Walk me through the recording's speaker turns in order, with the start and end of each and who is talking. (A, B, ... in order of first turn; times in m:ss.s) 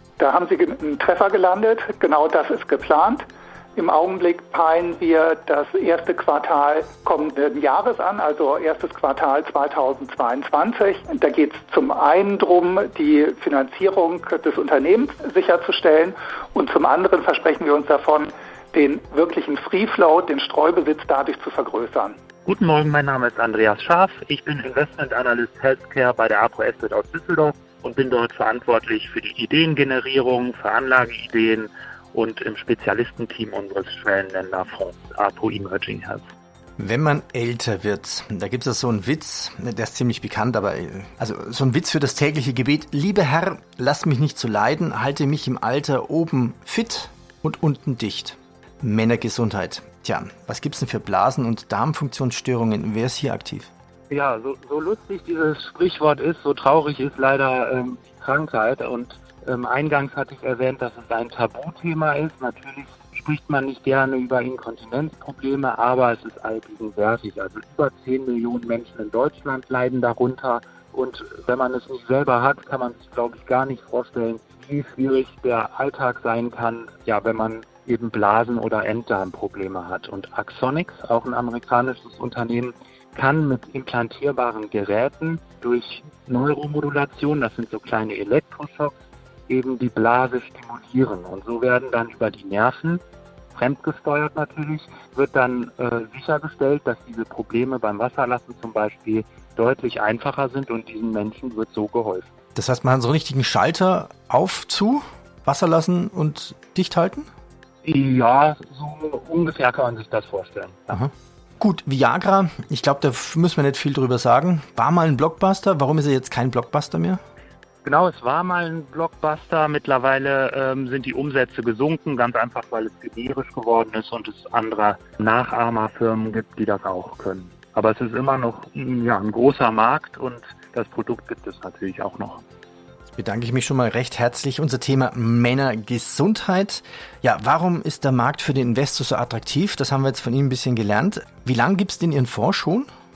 0:00.2-0:22.2 A
0:22.5-0:36.2 B
0:36.8-0:53.7 C
0:54.1-1:28.9 B
1:29.5-1:33.0 B
1:33.6-1:42.3 B
1:42.6-1:47.3 C
1:47.8-1:51.0 B
1:50.9-1:57.2 C
1:57.8-2:12.4 B
2:13.2-2:22.9 C